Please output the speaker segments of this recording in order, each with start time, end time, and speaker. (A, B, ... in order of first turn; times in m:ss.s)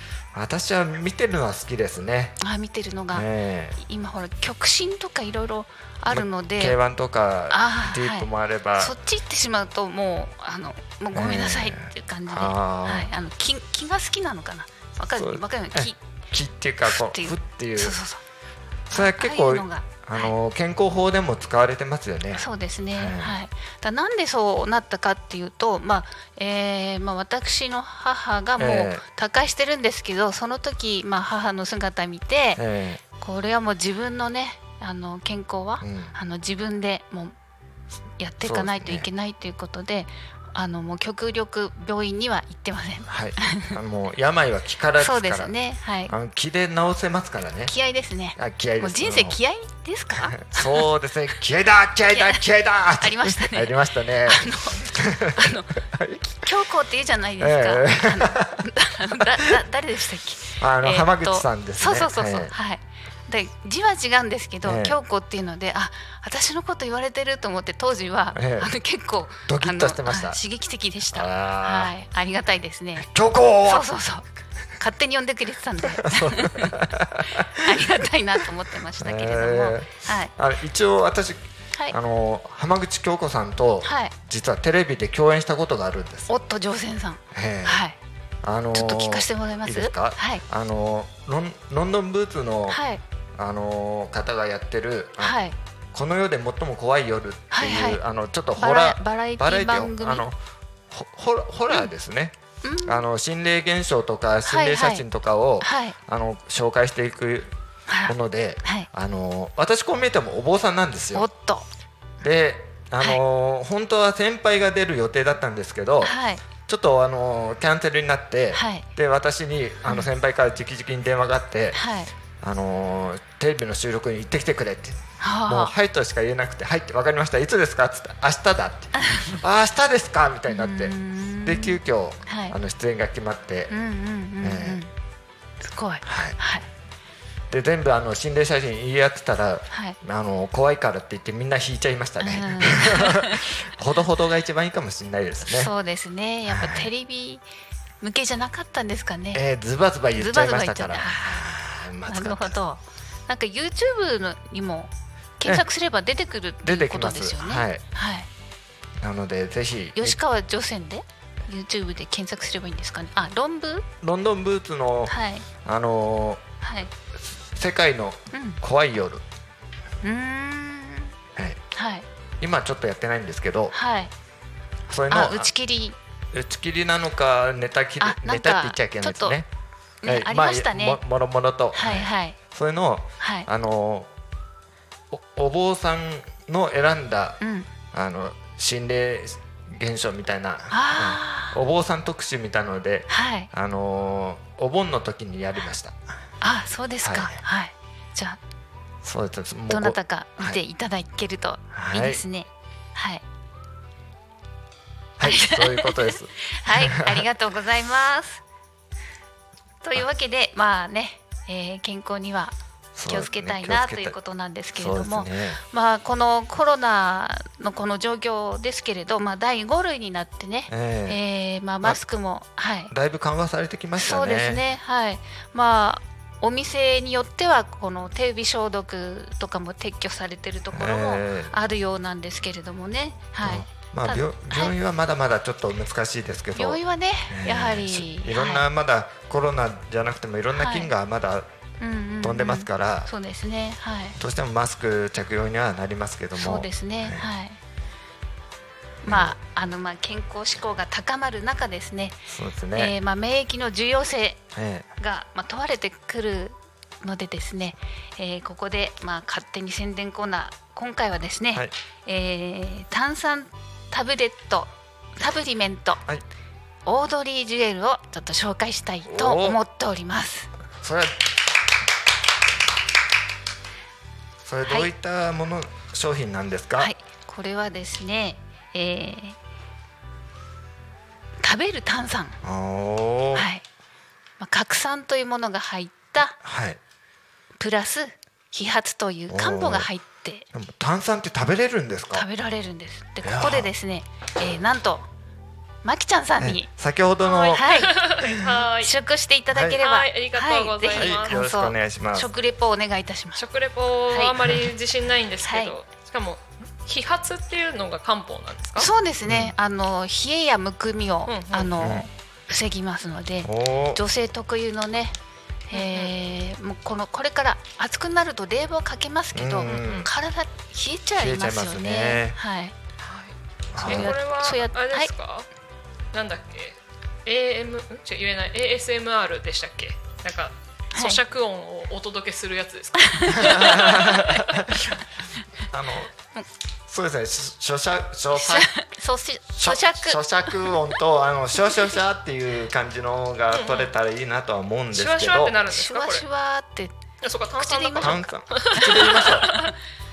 0:00.3-0:02.4 A
0:02.4-0:03.3 B
0:03.1-0:03.8 A
0:03.8-0:06.8 B
0:06.1-0:08.9 A
0:07.5-0:16.0 B
0:11.1-0:13.1 A
0:15.2-0:18.0 A
0:16.9-0:18.2 B
0:18.9-0:23.4 A
0:18.9-0:20.3 B
0:22.4-0:32.6 B
0:28.6-0:29.0 A
0:32.6-0:33.0 A
0:33.2-0:37.4 B
0:35.8-0:36.2 A
0:38.2-0:43.8 B
0:38.4-0:39.1 A
0:43.1-0:45.5 A
0:45.0-0:46.1 B
0:46.1-0:47.7 A
0:47.7-0:50.9 B
0:48.4-0:49.4 A
0:50.2-0:56.4 A
0:52.1-0:52.4 B
0:53.0-0:55.7 B
0:56.4-1:13.1 B
0:57.4-0:58.6 A
1:00.6-1:02.5 A
1:04.6-1:05.0 A
1:08.4-1:08.7 A
1:09.5-1:10.4 A
1:11.1-1:11.9 A
1:13.0-1:13.9 A
1:13.7-1:20.3 B
1:15.8-1:17.9 A
1:19.0-1:26.3 A
1:23.8-1:24.1 B
1:26.3-1:28.0 B
1:27.3-1:27.8 A
1:28.4-1:32.8 A
1:28.7-1:30.4 B
1:32.7-1:33.0 B
1:33.4-1:35.4 A
1:35.2-1:35.6 B
1:35.9-1:40.4 A
1:37.5-1:38.0 B
1:38.6-1:40.2 B
1:40.9-1:42.3 A
1:42.6-1:43.1 B
1:42.8-1:47.5 A
1:44.5-1:45.0 B
1:45.6-1:46.0 B
1:47.9-1:48.9 B
1:48.1-1:51.3 A
1:51.1-1:51.7 B
1:52.2-1:56.2 A
1:56.0-1:56.4 B
1:56.7-2:01.8 A
1:58.5-1:58.9 B
2:01.7-2:02.1 B
2:02.4-2:13.7 A
2:05.2-2:05.7 B
2:09.0-2:09.4 B
2:10.5-2:12.6 B
2:13.7-2:14.9 B
2:14.4-2:14.8 A
2:15.6-2:16.6 B
2:16.0-2:16.4 A
2:17.5-2:25.7 A
2:19.7-2:20.0 B
2:22.2-2:23.4 B
2:25.4-2:27.4 B
2:26.5-2:26.9 A
2:28.0-2:29.4 B
2:29.3-2:32.6 A
2:30.2-2:31.5 B
2:32.1-2:38.3 B
2:36.6-2:37.8 A
2:39.0-2:40.2 A
2:40.0-2:43.9 B
2:44.0-2:46.4 A
2:45.1-2:45.5 B
2:46.6-2:46.9 B
2:47.2-2:49.2 A
2:48.3-2:48.6 B
2:50.0-2:51.1 B
2:51.4-2:51.6 A
2:51.7-2:52.1 B
2:52.4-2:53.8 A
2:53.7-2:54.1 B
2:54.9-2:55.5 A
2:55.1-2:56.0 B
2:56.3-2:59.5 A
2:58.0-2:59.4 B
3:00.0-3:01.0 B
3:00.1-3:04.1 A
3:01.7-3:02.4 B
3:03.2-3:03.5 B
3:05.1-3:07.4 A
3:07.4-3:07.7 B
3:07.9-3:16.0 A
3:10.7-3:11.6 B
3:13.1-3:13.5 B
3:16.4-3:18.4 B
3:17.0-3:17.4 A
3:19.0-3:20.6 A
3:19.7-3:23.2 B
3:21.7-3:22.2 A
3:25.2-3:27.2 A
3:25.2-3:28.4 B
3:29.8-3:32.6 B
3:33.0-3:34.2 A
3:33.1-3:42.9 B
3:34.8-3:35.6 A
3:40.7-3:41.2 A
3:42.9-3:44.6 A
3:44.0-3:54.8 B
3:50.7-3:51.5 A
3:53.4-4:01.5 A
3:56.6-3:58.6 B
4:00.6-4:00.9 B
4:01.8-4:04.2 B
4:02.2-4:03.1 A
4:04.2-4:07.3 A
4:06.4-4:07.6 B
4:09.0-4:14.4 B
4:09.0-4:09.4 A
4:12.3-4:13.0 A
4:14.5-4:14.9 A
4:15.0-4:26.0 B
4:26.9-4:30.5 B
4:29.1-4:29.6 A
4:30.8-4:31.3 A
4:34.4-4:36.9 A
4:34.6-4:34.9 B
4:36.8-4:39.4 B
4:41.4-4:42.4 B
4:42.4-4:43.5 A
4:43.3-4:43.6 B
4:44.4-4:46.4 B
4:46.4-4:46.8 A
4:47.6-4:50.5 B
4:49.3-4:49.9 A
4:50.5-4:52.3 A
4:52.1-4:55.1 B
4:53.2-4:53.7 A
4:55.8-4:56.7 B
4:56.4-4:57.7 A
4:57.2-4:58.9 C
4:57.5-4:58.0 B
4:58.2-4:58.5 A
4:58.8-5:03.4 B
4:59.5-4:59.8 A
4:59.8-5:01.4 C
5:00.9-5:02.3 A
5:03.4-5:08.9 C
5:04.1-5:04.5 B
5:05.4-5:05.7 B
5:08.8-5:15.2 B
5:09.3-5:09.5 A
5:11.3-5:11.8 C
5:11.8-5:12.1 A
5:13.4-5:14.0 A
5:15.7-5:22.7 B
5:15.7-5:16.1 C
5:19.3-5:20.1 A
5:19.7-5:20.1 C
5:21.2-5:22.4 A
5:23.0-5:25.5 C
5:23.7-5:24.1 A
5:23.8-5:25.1 B
5:26.1-5:34.7 C
5:33.0-5:34.0 B
5:33.4-5:34.9 A
5:35.7-5:36.1 A
5:36.9-5:38.7 A
5:38.3-5:40.9 B
5:39.5-5:45.6 A
5:43.5-5:43.9 C
5:44.9-5:46.2 C
5:45.7-5:46.9 B
5:47.2-5:49.7 C
5:47.6-5:49.7 B
5:48.0-5:49.5 A